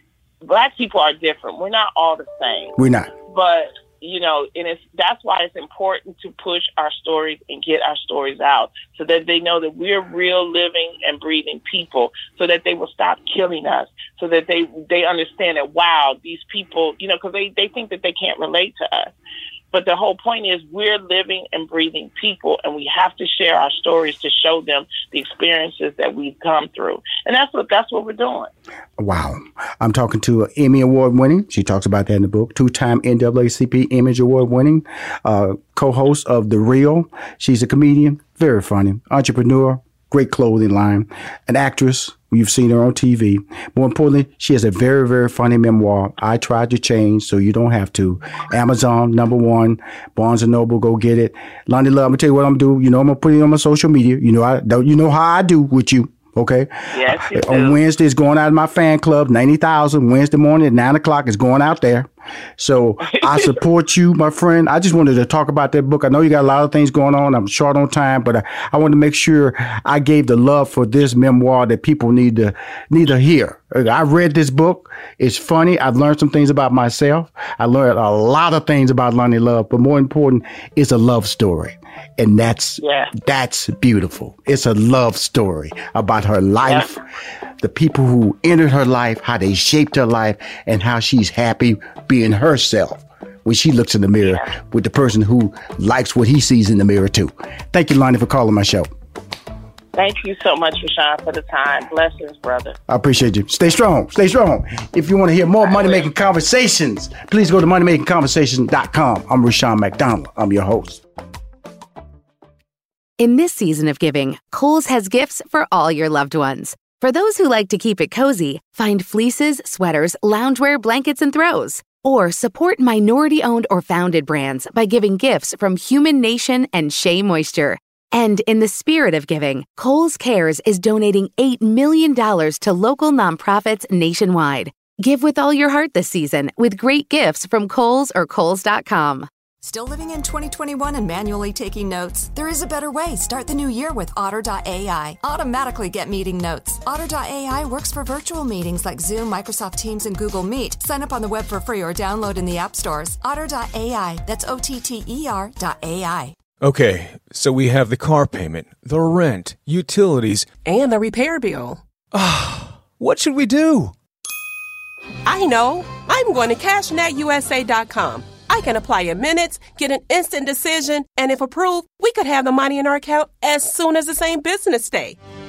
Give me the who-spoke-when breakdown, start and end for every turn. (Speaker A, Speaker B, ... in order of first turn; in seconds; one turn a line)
Speaker A: 0.4-2.7
Speaker B: 2.8-3.1
Speaker A: 3.3-19.1
Speaker A: 19.7-28.5
Speaker B: 29.0-87.0
Speaker A: 56.9-57.8
Speaker A: 63.2-63.5
Speaker A: 82.8-83.1
Speaker B: 87.6-98.9
Speaker A: 99.9-102.8
Speaker B: 102.9-111.0
Speaker A: 105.6-106.0
Speaker C: 113.2-139.3
Speaker D: 139.6-156.3
Speaker E: 156.6-160.6
Speaker F: 160.5-161.8
Speaker E: 162.1-163.9
Speaker F: 165.2-175.2